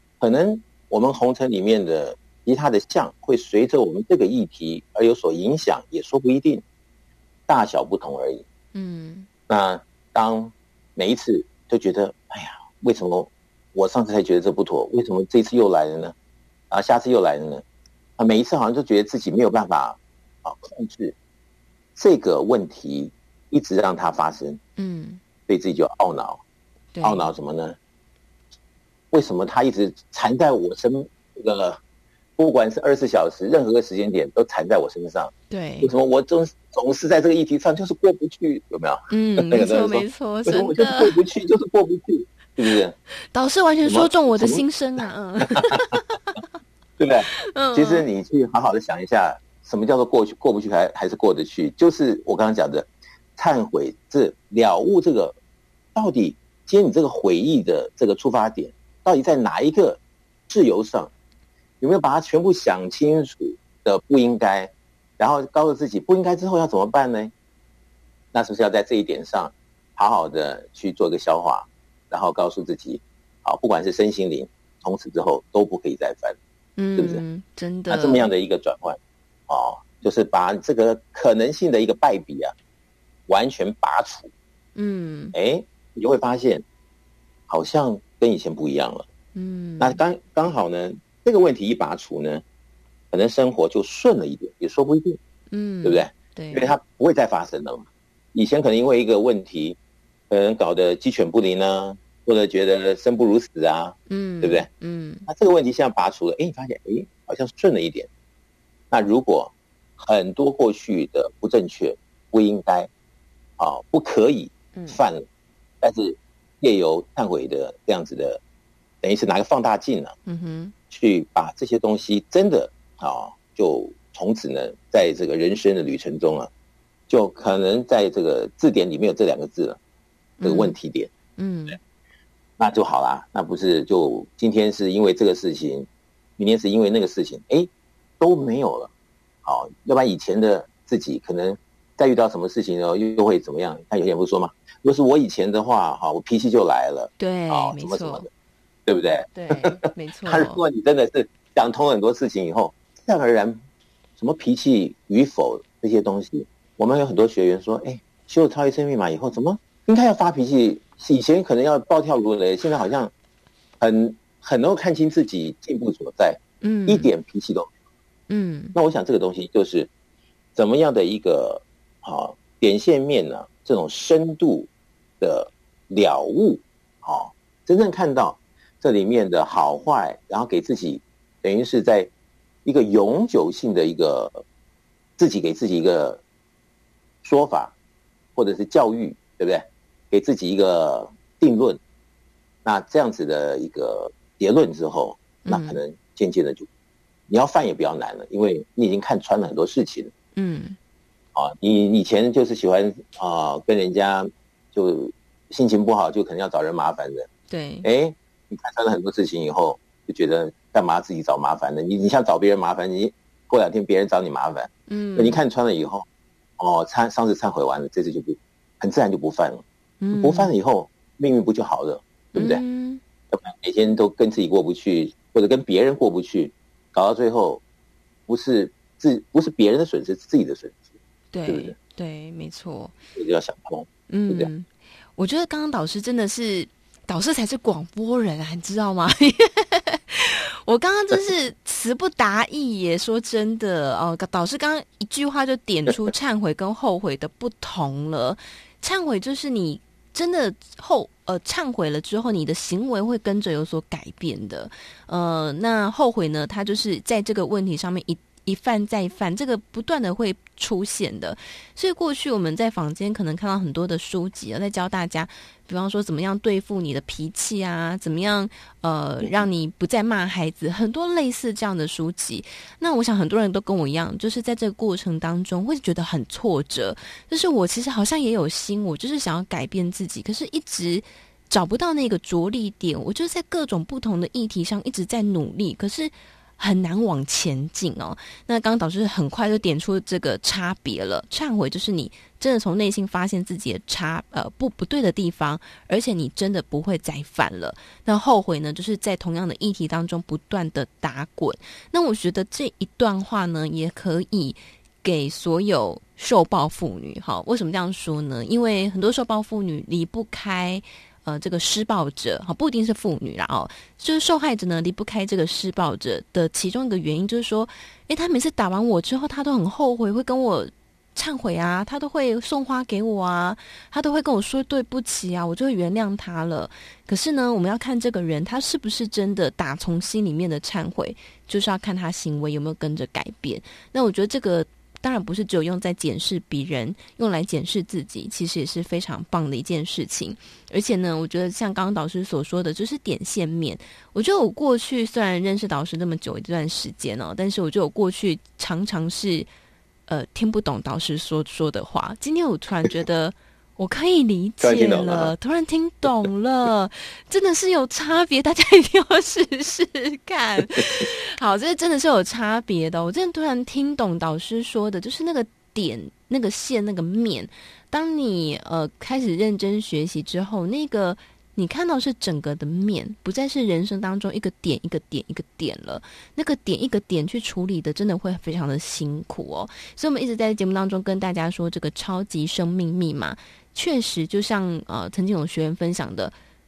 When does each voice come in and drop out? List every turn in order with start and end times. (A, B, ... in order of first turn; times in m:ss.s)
0:00.2-0:06.6 A
0:07.5-0:08.4 A
0:08.7-0:09.3 B
0:09.5-0:16.1 A
0:16.7-0:17.6 A
0:18.2-0:21.2 A
0:22.0-0:24.6 A
0:24.8-0:25.2 B
0:25.5-0:26.4 A
0:26.9-0:27.3 B
0:27.0-0:27.8 A
0:29.1-0:31.8 A
0:32.4-0:43.0 A
0:35.5-0:35.9 B
0:39.1-0:41.2 B
0:43.3-0:46.4 B
0:43.8-0:44.6 A
0:45.4-0:45.8 A
0:47.0-0:55.4 A
0:47.3-0:48.1 B
0:56.0-1:01.1 A
1:01.8-1:07.3 A
1:08.3-1:16.4 A
1:16.8-1:18.3 B
1:17.0-1:17.2 A
1:17.9-1:19.0 A
1:19.5-1:22.5 A
1:23.3-1:24.3 A
1:24.8-1:25.3 B
1:25.3-1:26.6 A
1:27.5-1:29.1 A
1:29.4-1:30.0 B
1:29.8-1:32.4 A
1:33.1-1:35.2 A
1:35.5-1:36.7 B
1:35.8-1:39.8 A
1:40.3-1:44.7 A
1:44.1-1:45.3 B
1:45.3-1:48.1 A
1:48.9-1:52.9 A
1:53.6-1:55.2 A
1:54.7-1:55.0 B
1:55.8-1:58.4 A
1:59.0-2:00.1 A
2:00.2-2:00.7 B
2:00.9-2:06.5 A
2:07.1-2:09.8 A
2:10.4-2:10.8 B
2:10.4-2:11.1 A
2:11.4-2:11.8 B
2:12.6-2:18.9 A
2:19.4-2:28.3 A
2:27.2-2:28.3 B
2:28.9-2:33.6 A
2:29.3-2:30.6 B
2:34.2-2:43.1 A
2:43.8-2:47.7 A
2:46.6-2:47.1 B
2:48.3-2:48.8 B
2:48.8-2:49.9 A
2:50.6-2:54.7 A
2:55.2-3:02.1 A
3:02.6-3:04.4 A
3:05.2-3:06.2 A
3:07.2-3:07.8 A
3:08.4-3:11.8 A
3:12.6-3:16.7 A
3:15.4-3:15.8 B
3:17.3-3:20.1 A
3:20.4-3:20.8 B
3:21.4-3:27.3 A
3:27.5-3:27.9 B
3:27.8-3:36.0 A
3:34.9-3:35.4 B
3:36.6-3:42.6 A
3:40.0-3:40.5 B
3:42.3-3:43.0 B
3:43.3-3:47.6 A
3:48.3-3:50.9 A
3:51.3-3:53.0 B
3:51.5-3:51.8 A
3:53.2-3:54.5 A
3:54.1-5:49.5 B
5:50.1-6:26.4 B
5:54.6-5:55.3 A
6:00.8-6:01.0 A